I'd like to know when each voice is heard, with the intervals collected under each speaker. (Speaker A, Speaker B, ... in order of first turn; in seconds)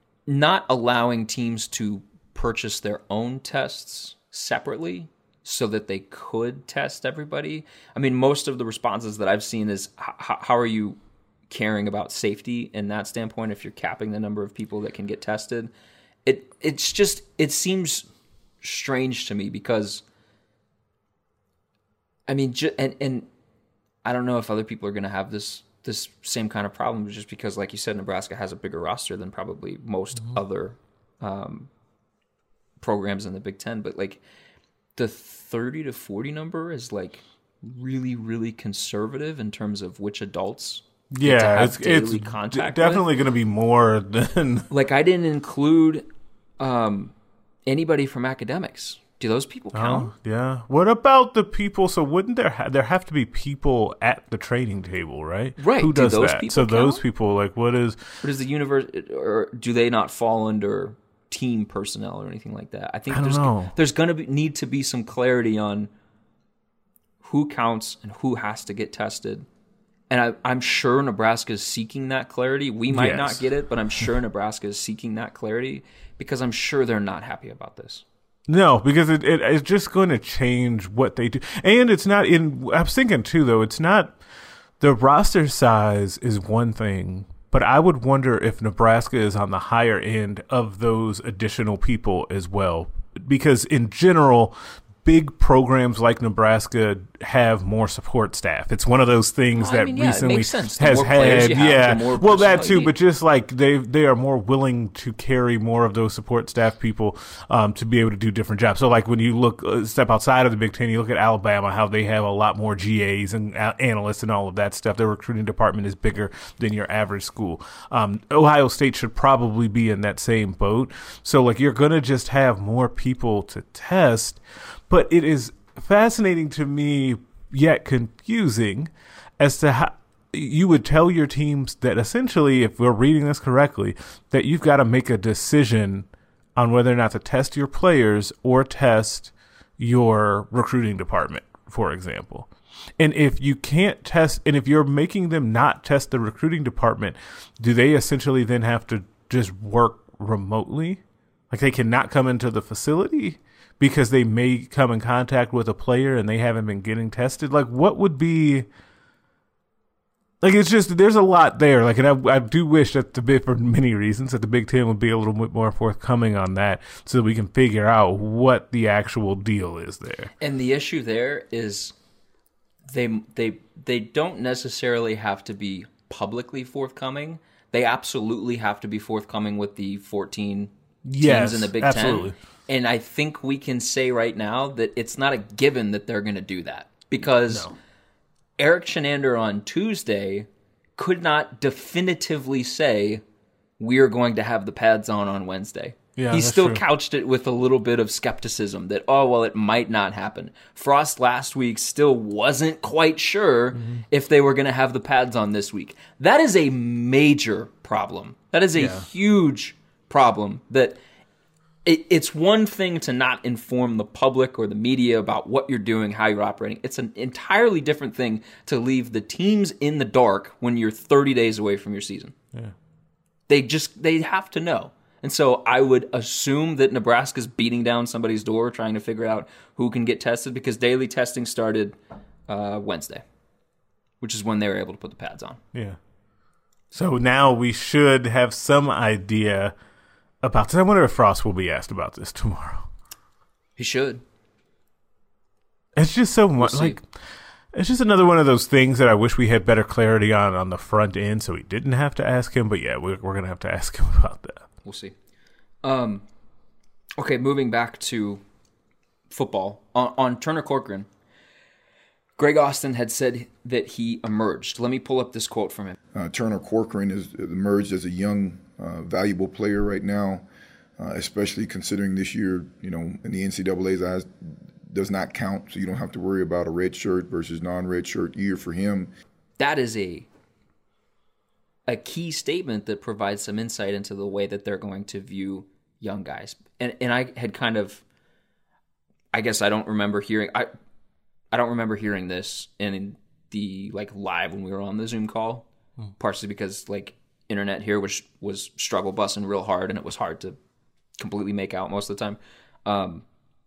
Speaker A: 0.3-11.0, 11.5-15.7, 16.2-18.1, 18.6-20.0, 22.3-23.3, 24.0-31.7, 32.8-34.2, 35.0-43.0, 44.7-46.0, 46.6-47.1, 47.6-50.1, 55.6-57.0, 58.2-65.9, 67.2-69.5, 70.1-78.0, 99.5-102.9, 170.4-171.9, 172.9-187.7, 188.6-193.2, 193.8-211.0, 211.8-222.3, 223.5-231.9, 232.5-233.2, 234.2-235.6, 243.8-244.2, 246.6-247.0, 254.8-255.1, 255.8-256.2, 257.2-258.4, 259.3-261.1, 262.4-265.9, 279.6-280.3, 281.9-288.0, 289.3-290.7, 291.5-295.6, 296.2-300.6, 301.2-303.2
Speaker B: 41.1-44.7, 49.7-58.0, 63.1-63.7, 72.9-73.5, 78.5-84.2, 84.8-142.5, 143.0-158.7, 160.4-170.3, 181.0-182.3, 187.5-187.7, 196.2-196.8, 203.7-204.0, 208.7-209.1, 236.9-239.7, 240.4-242.9, 245.9-247.1, 247.7-254.6
Speaker C: 266.1-270.4, 271.0-274.3, 274.9-279.1